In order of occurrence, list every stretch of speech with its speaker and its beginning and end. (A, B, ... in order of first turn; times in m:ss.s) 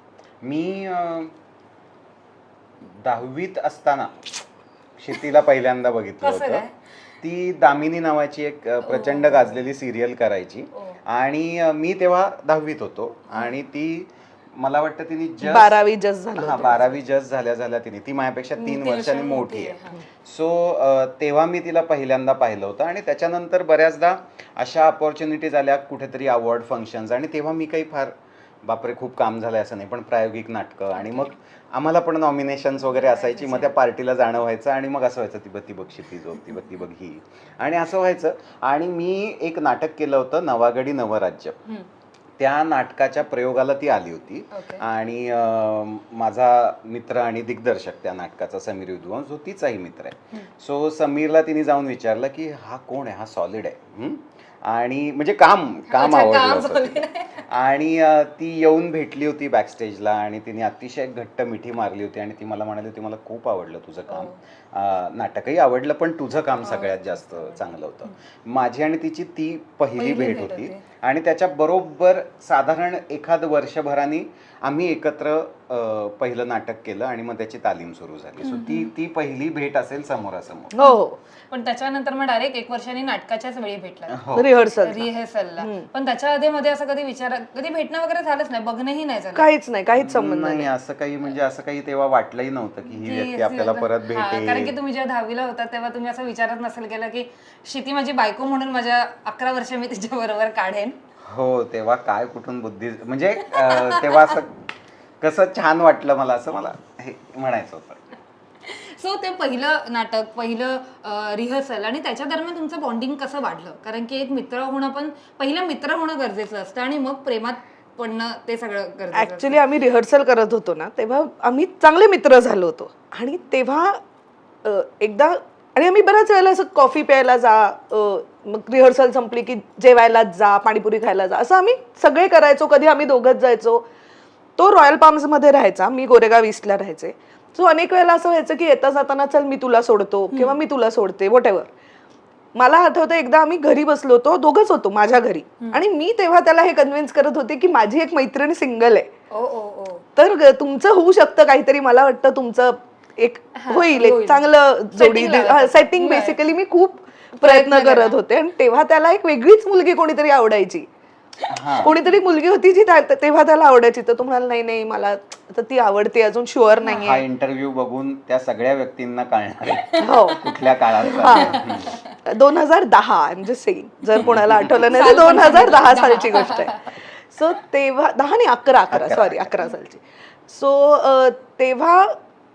0:00.4-0:01.3 A
0:03.0-0:04.2 A
0:05.0-0:06.6 A
0:06.2-0:06.7 B
0:07.2-0:15.8 A
0:08.8-0:09.6 B
0:10.7-0:11.0 B
0:13.3-0:13.5 B
0:15.4-0:16.9 C
0:16.3-0:41.6 A
0:18.6-0:20.0 B
0:31.0-0:31.3 B
0:32.9-0:33.7 B
0:42.4-1:20.7 A
0:44.5-0:44.8 B
0:55.9-0:57.4 B
1:04.1-1:04.4 B
1:06.6-1:08.2 B
1:10.0-1:10.8 B
1:18.4-1:18.9 B
1:20.7-1:21.2 C
1:21.5-1:24.2 B
1:24.1-1:24.5 A
1:24.3-1:25.9 C
1:24.8-1:29.5 B
1:29.3-1:30.7 C
1:30.0-1:34.8 A
1:32.9-1:41.0 B
1:41.2-1:44.6 A
1:43.5-1:44.4 B
1:45.2-1:48.0 A
1:48.6-1:59.6 B
1:59.1-2:04.0 C
2:04.6-2:13.8 C
2:14.6-2:21.7 C
2:20.3-2:20.6 B
2:22.5-2:29.1 C
2:29.3-2:30.0 B
2:30.2-2:40.8 C
2:33.5-2:36.4 B
2:37.4-2:38.2 B
2:41.5-2:41.9 A
2:41.7-2:42.1 B
2:41.8-2:47.2 C
2:46.9-2:51.9 A
2:50.0-2:50.5 B
2:50.0-2:50.5 C
2:51.1-2:52.1 B
2:51.2-2:51.6 C
2:52.2-3:02.1 C
2:54.2-2:54.9 A
2:54.8-2:57.0 B
2:58.9-2:59.6 A